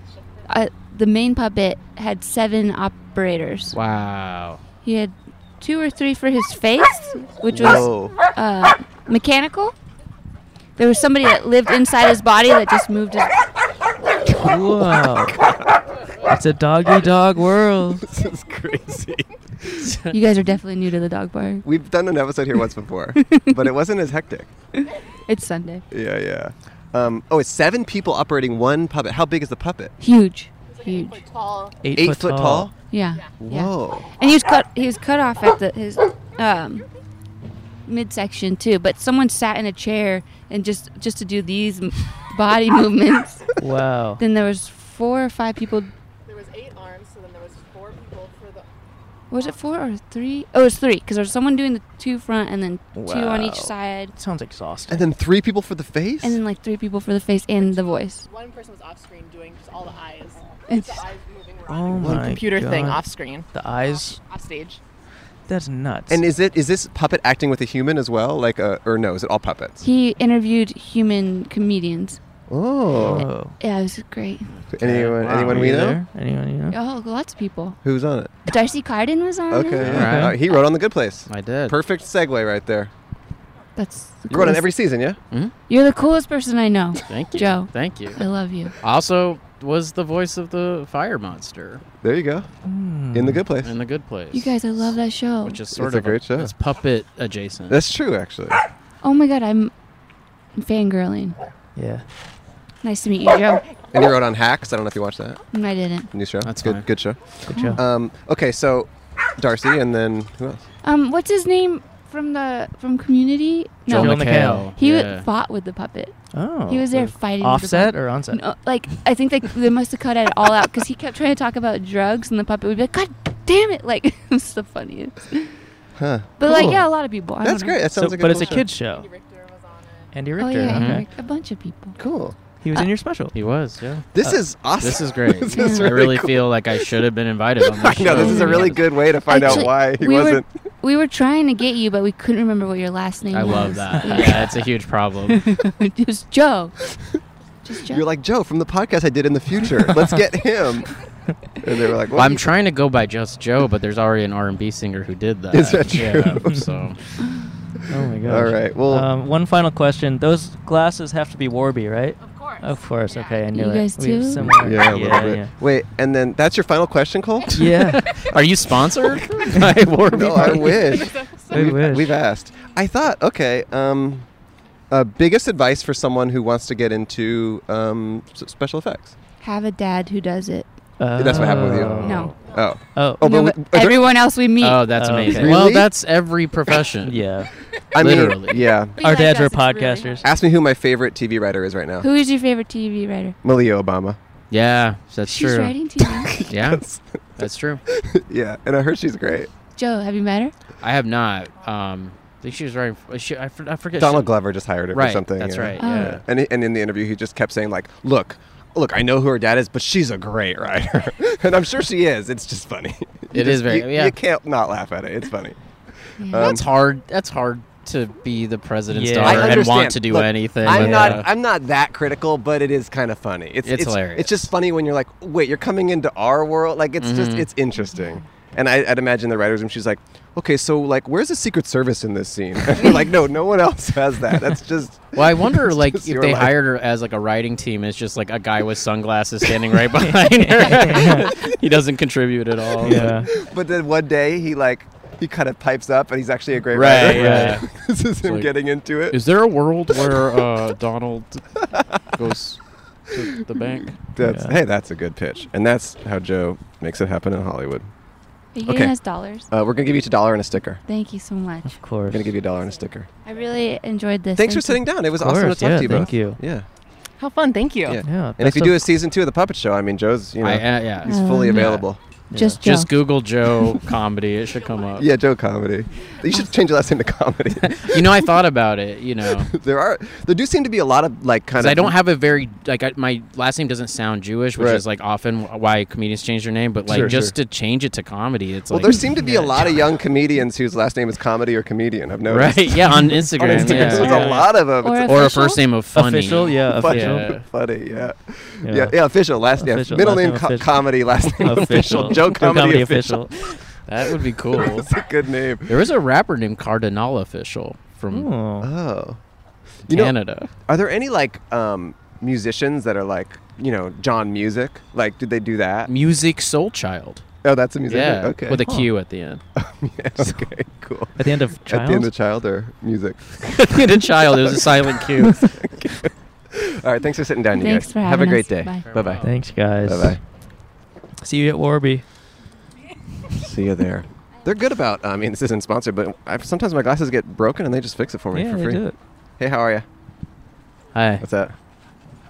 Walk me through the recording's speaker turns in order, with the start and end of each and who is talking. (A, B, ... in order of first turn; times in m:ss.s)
0:00.5-0:03.8 A
0:03.7-0:04.6 B
0:04.8-0:09.8 A
0:07.5-0:08.2 C
0:10.8-0:13.4 A
0:14.3-0:15.5 C
0:14.4-0:15.4 D
0:16.2-0:18.0 D
0:18.0-0:19.9 C
0:19.8-0:20.2 B
0:20.1-0:21.6 A
0:21.6-0:24.5 C
0:23.2-0:23.6 A
0:25.2-0:25.8 A
0:25.9-0:29.9 C
0:30.0-0:31.2 A
0:30.6-0:31.9 E
0:31.8-0:32.7 D
0:31.9-0:32.7 C
0:32.9-0:36.9 A
0:33.1-0:33.4 E
0:33.4-0:34.1 C
0:37.8-0:43.5 A
0:43.6-0:44.2 D
0:44.2-0:45.9 A
0:46.2-0:48.7 E
0:49.3-0:54.1 A
0:52.9-0:55.1 D
0:54.9-0:56.4 C
0:56.2-0:58.2 A
0:57.6-1:04.8 E
1:00.7-1:01.0 A
1:01.7-1:04.2 D
1:02.0-1:02.4 C
1:05.5-1:06.2 D
1:06.1-1:09.8 C
1:09.8-1:12.2 A
1:12.5-1:13.3 C
1:12.9-1:13.6 D
1:13.2-1:14.5 A
1:14.5-1:15.8 B
1:14.7-1:16.0 C
1:15.4-1:16.8 D
1:16.7-1:17.8 A
1:17.8-1:18.3 C
1:18.4-1:19.9 A
1:19.5-1:22.9 C
1:19.8-1:20.4 B
1:19.9-1:20.4 D
1:21.3-1:21.8 B
1:23.8-1:24.7 A
1:24.3-1:25.2 C
1:25.7-1:28.7 A
1:27.1-1:28.2 B
1:28.8-1:31.8 B
1:32.0-1:32.5 C
1:32.6-1:33.4 D
1:33.1-1:33.7 C
1:33.6-1:37.8 B
1:34.3-1:35.6 A
1:35.7-1:36.5 C
1:37.7-1:38.6 C
1:39.0-1:39.7 A
1:40.6-1:41.4 A
1:41.8-1:42.0 D
1:42.8-1:43.7 A
1:43.9-1:45.4 C
1:45.5-1:46.1 A
1:46.1-1:50.6 C
1:46.4-1:46.8 B
1:47.5-1:47.8 D
1:47.5-1:47.8 A
1:50.8-2:05.6 A
1:53.9-1:55.3 B
1:53.9-1:54.7 D
1:56.3-1:58.4 D
2:06.0-2:06.9 C
2:06.4-2:07.8 A
2:07.4-2:08.6 C
2:08.0-2:09.1 D
2:08.2-2:10.1 E
2:10.1-2:11.0 D
2:10.4-2:12.0 A
2:10.6-2:11.0 B
2:10.8-2:11.1 E
2:12.0-2:12.4 C
2:12.6-2:13.3 D
2:13.3-2:14.0 B
2:14.1-2:16.6 C
2:14.8-2:19.7 B
2:15.5-2:15.9 A
2:17.6-2:20.5 C
2:18.1-2:24.7 A
2:23.3-2:25.5 B
2:23.9-2:24.2 D
2:25.3-2:26.8 A
2:27.6-2:28.0 A
2:27.8-2:30.9 C
2:31.6-2:32.5 C
2:32.1-2:37.0 B
2:35.5-2:36.7 C
2:37.2-2:37.5 A
2:37.9-2:45.5 D
2:38.2-2:39.1 C
2:42.3-2:43.5 E
2:43.5-2:44.6 A
2:44.4-2:47.7 C
2:47.5-2:48.0 D
2:47.7-2:51.0 B
2:50.1-2:54.3 C
2:50.9-2:51.8 E
2:51.5-2:52.1 D
2:54.9-2:59.1 C
2:59.4-3:00.7 A
3:01.0-3:02.3 D
3:01.2-3:04.1 C
3:02.0-3:02.2 B
3:02.0-3:02.3 A
3:02.9-3:03.2 D
3:03.2-3:04.8 A
3:04.6-3:07.2 B
3:05.0-3:05.6 D
3:05.3-3:05.9 C
3:07.0-3:07.5 D
3:07.9-3:09.0 C
3:08.0-3:08.7 B
3:09.0-3:10.2 A
3:09.0-3:10.2 D
3:09.8-3:10.3 E
3:10.2-3:12.1 C
3:12.0-3:13.4 A
3:13.4-3:14.2 C
3:14.5-3:15.7 B
3:15.3-3:16.3 A
3:16.0-3:17.2 C
3:16.5-3:16.8 B
3:17.4-3:17.8 B
3:17.9-3:19.5 C
3:19.8-3:20.5 A
3:20.8-3:24.3 B
3:23.9-3:36.6 C
3:24.9-3:26.2 B
3:25.8-3:26.2 A
3:33.3-3:34.1 B
3:36.2-3:36.6 A
3:36.3-3:41.3 B
3:38.9-3:39.6 D
3:39.2-3:56.5 C
3:40.6-3:41.2 D
3:43.6-3:44.5 B
3:47.0-3:47.5 B
3:55.1-4:03.2 B
4:00.0-4:01.3 D
4:02.8-4:09.2 C
4:02.8-4:03.3 D
4:06.7-4:07.7 B
4:07.1-4:07.6 D
4:08.2-4:08.5 B
4:09.1-4:14.0 B
4:09.9-4:10.4 C
4:11.7-4:12.0 C
4:14.1-4:17.9 C
4:14.2-4:14.6 D
4:18.5-4:19.5 A
4:18.6-4:19.0 C
4:19.5-4:20.8 C
4:20.8-4:21.8 A
4:21.7-4:22.3 D
4:22.1-4:23.1 C
4:22.5-4:23.4 E
4:23.2-4:24.8 A
4:24.3-4:26.6 C
4:25.2-4:26.4 D
4:27.2-4:28.0 E
4:27.8-4:32.0 C
4:28.0-4:28.9 D
4:30.4-4:31.8 B
4:31.0-4:31.8 A
4:32.3-4:32.6 D
4:32.4-4:32.9 A
4:32.6-4:35.1 B
4:35.0-4:38.3 C
4:37.6-4:39.5 B
4:39.2-4:42.0 C
4:41.5-4:49.8 B
4:44.6-4:44.8 C
4:46.9-4:47.3 D
4:46.9-4:47.3 C
4:48.7-4:55.4 C
4:52.3-4:54.5 B
4:53.4-4:54.4 D
4:54.1-4:55.6 A
4:55.0-4:57.4 B
4:55.9-4:57.3 D
4:56.7-5:05.8 C
4:58.6-4:59.0 D
4:59.6-5:03.3 D
5:03.8-5:04.9 B
5:05.7-5:08.3 B
5:08.1-5:08.7 D
5:08.6-5:09.2 C
5:09.9-5:15.9 C
5:09.9-5:10.5 B
5:15.9-5:17.2 B
5:17.4-5:18.6 C
5:17.9-5:19.4 B
5:18.5-5:18.9 D
5:19.6-5:29.2 C
5:21.2-5:22.1 D
5:23.4-5:25.6 B
5:27.5-5:28.8 A
5:28.8-5:29.4 B
5:29.2-5:30.2 D
5:29.8-5:30.2 C
5:31.2-5:32.0 D
5:33.4-5:38.8 C
5:38.3-5:39.0 D
5:39.4-5:39.8 C
5:40.9-5:41.2 D
5:41.2-5:41.5 C